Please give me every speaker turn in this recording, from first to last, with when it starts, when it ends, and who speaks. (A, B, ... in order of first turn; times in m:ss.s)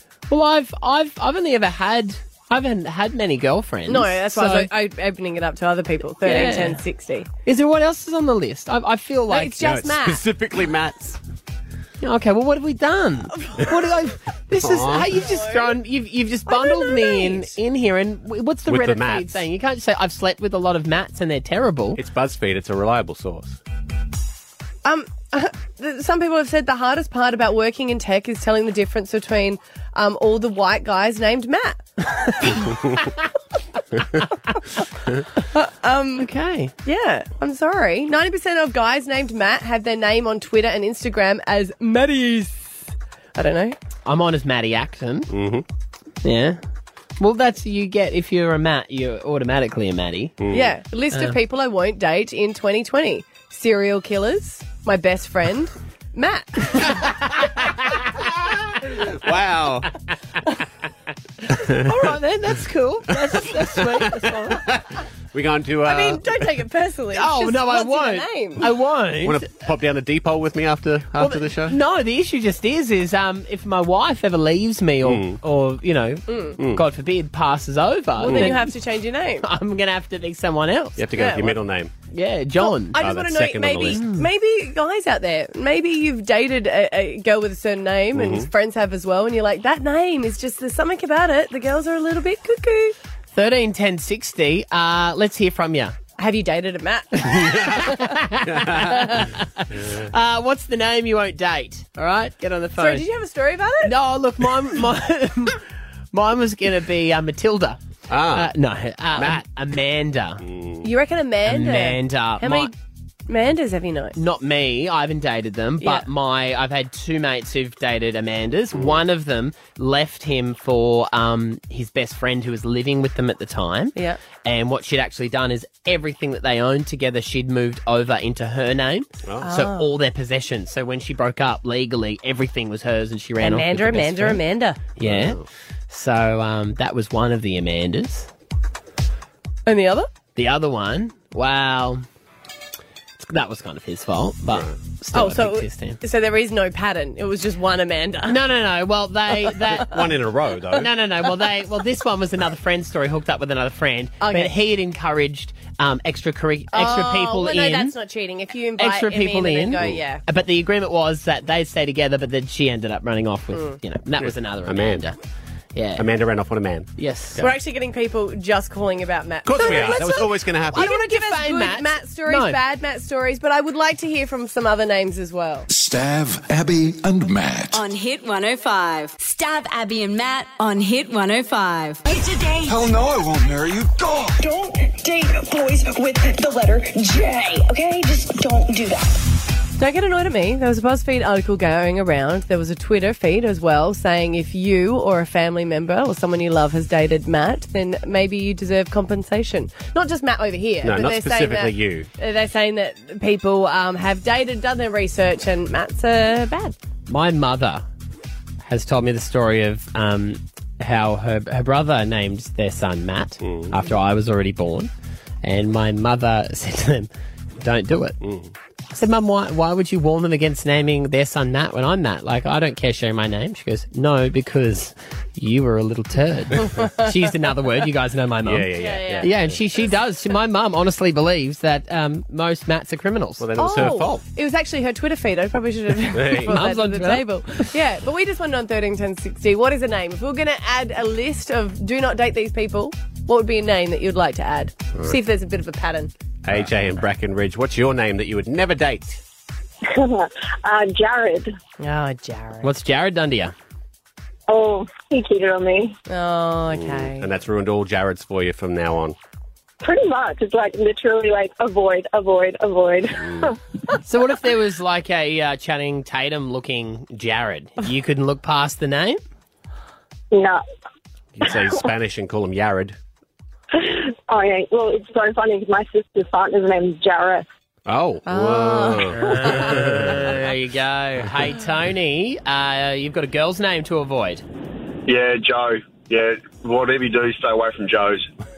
0:00.3-0:04.7 A
0:03.9-0:07.3 B
0:06.2-0:06.8 A
0:07.4-0:09.9 A
0:09.3-0:10.2 B
0:09.6-0:11.2 C
0:12.0-0:22.0 A
0:13.4-0:13.7 B
0:14.6-0:15.1 C
0:15.1-0:15.7 B
0:16.5-0:17.5 B
0:18.6-0:19.4 C
0:21.9-0:23.6 C
0:24.8-0:32.7 B
0:35.5-0:36.3 B
0:36.2-0:36.7 A
0:36.8-0:43.8 B
0:44.0-0:45.3 A
0:45.3-0:45.6 C
0:46.2-0:46.6 A
0:47.2-0:50.4 A
0:50.4-0:50.7 C
0:50.5-0:57.1 B
0:51.1-0:51.4 A
0:58.1-0:59.9 C
1:01.6-1:01.9 C
1:01.7-1:04.6 A
1:04.4-1:06.4 C
1:05.8-1:08.7 B
1:07.1-1:09.4 A
1:09.2-1:11.8 C
1:11.2-1:18.7 A
1:15.0-1:15.4 C
1:16.3-1:16.6 B
1:16.6-1:16.8 C
1:18.2-1:19.4 B
1:18.2-1:18.5 C
1:19.4-1:21.0 A
1:21.0-1:21.9 C
1:21.1-1:21.6 B
1:22.1-1:23.0 A
1:22.6-1:33.0 B
1:22.9-1:24.0 C
1:23.9-1:24.3 A
1:28.1-1:28.5 C
1:33.3-1:35.9 A
1:36.2-1:38.1 B
1:37.3-1:43.0 A
1:38.5-1:39.1 C
1:38.8-1:39.2 B
1:42.8-1:43.9 B
1:43.8-1:50.4 A
1:48.1-1:48.5 C
1:49.1-1:49.4 C
1:50.4-1:50.9 C
1:50.8-1:52.7 B
1:51.4-1:52.7 A
1:53.3-1:54.2 B
1:54.1-2:18.3 A
1:55.8-1:56.0 B
2:09.2-2:09.6 C
2:09.4-2:09.9 B
2:13.4-2:14.8 B
2:15.0-2:15.4 C
2:19.6-2:20.1 B
2:20.3-2:22.0 A
2:23.2-2:26.0 A
2:25.1-2:28.4 B
2:28.2-2:30.0 A
2:29.7-2:30.9 C
2:30.7-2:37.9 A
2:34.2-2:34.5 B
2:36.7-2:40.2 B
2:38.8-2:45.2 A
2:44.2-2:45.1 C
2:45.7-2:46.1 A
2:46.0-2:47.5 C
2:47.0-2:47.4 A
2:47.4-2:55.7 B
2:49.4-2:50.9 C
2:49.6-2:50.2 A
2:50.7-2:52.6 A
2:55.7-2:57.8 D
2:57.7-3:02.0 E
3:02.7-3:04.4 D
3:04.4-3:09.2 F
3:09.8-3:26.7 B
3:20.8-3:22.1 C
3:27.1-3:27.8 A
3:28.6-3:34.9 A
3:33.4-3:33.8 C
3:35.4-3:37.1 A
3:37.6-3:38.2 A
3:38.2-3:38.5 C
3:38.9-3:53.5 A
3:48.4-3:49.4 C
3:48.7-3:49.5 B
3:53.4-3:54.2 C
3:53.6-4:06.1 B
3:56.1-3:56.6 C
3:56.4-3:57.6 A
4:06.4-4:09.2 C
4:09.8-4:11.5 G
4:11.8-4:12.7 B
4:12.6-4:13.5 A
4:14.5-4:16.0 G
4:16.1-4:17.3 B
4:16.7-4:19.2 C
4:19.8-4:23.6 G
4:23.2-4:23.5 C
4:24.0-4:29.2 A
4:30.3-4:30.6 G
4:31.4-4:33.0 C
4:33.7-4:37.5 G
4:37.8-4:40.3 C
4:38.2-4:39.7 B
4:39.2-4:44.4 A
4:45.1-4:48.2 H